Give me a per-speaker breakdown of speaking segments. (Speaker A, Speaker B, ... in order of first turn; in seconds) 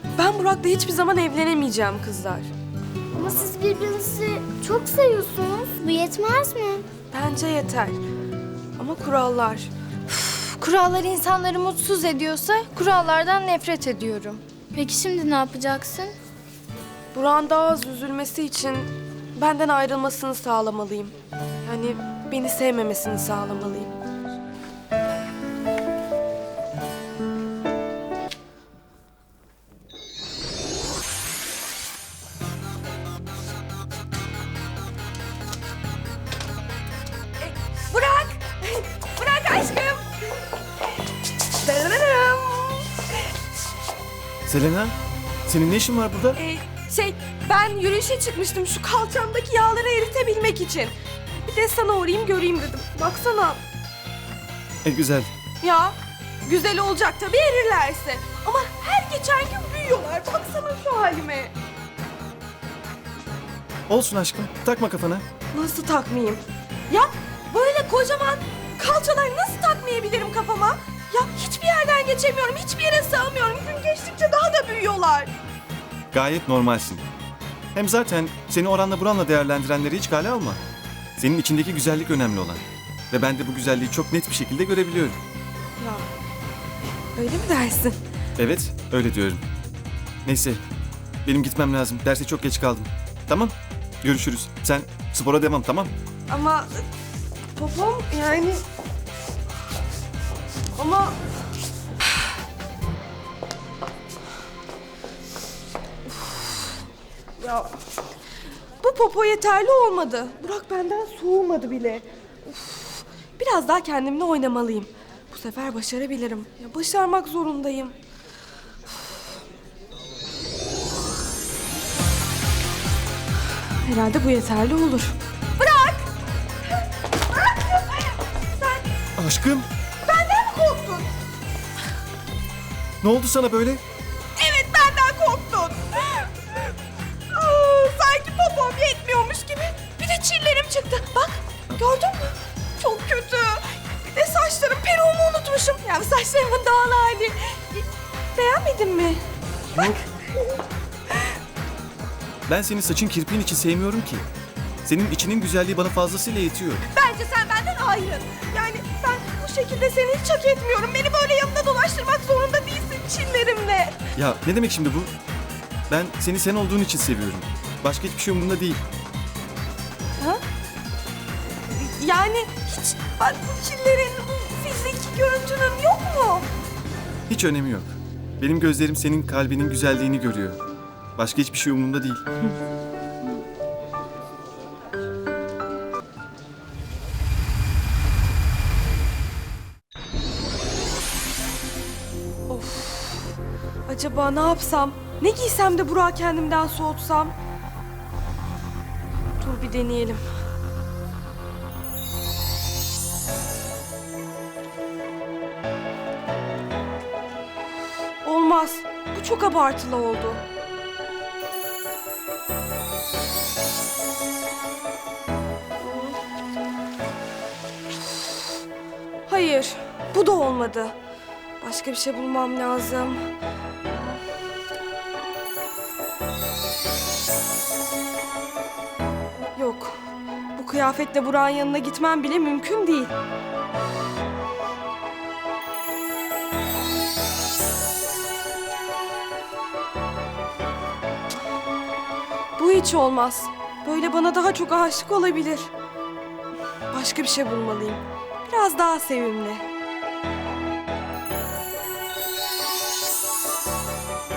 Speaker A: 0.1-2.5, 7.1-8.0, 8.8-9.7, 17.1-23.9, 37.4-40.0, 41.5-43.0, 46.3-50.9, 51.5-53.6, 55.6-55.9, 56.5-61.5, 65.5-75.3, 85.8-86.0, 87.1-88.0, 96.3-96.8, 97.5-98.6, 100.7-101.2, 106.1-106.8, 107.4-107.7, 108.8-118.0, 123.8-126.0, 127.3-128.9, 130.1-131.1, 134.4-136.7, 137.3-149.2, 149.7-150.0, 156.9-164.0, 171.7-176.5, 192.5-193.3, 193.9-197.3, 199.4-200.2, 208.2-210.4, 215.8-216.2, 219.3-220.9, 221.6-223.3, 223.9-224.2, 229.6-230.0, 230.5-233.1, 242.6-245.7, 246.9-249.6
Speaker B: 3.1-6.8, 10.1-16.1
Speaker C: 44.5-44.9, 45.5-46.4, 54.8-55.3, 63.9-65.2, 76.1-77.0, 77.7-80.6, 81.2-85.2, 88.4-89.4, 90.2-90.6, 91.2-95.9, 129.2-129.7, 133.0-133.8, 152.5-154.2, 154.8-156.8, 164.1-165.1, 165.9-168.8, 177.3-180.6, 181.2-182.2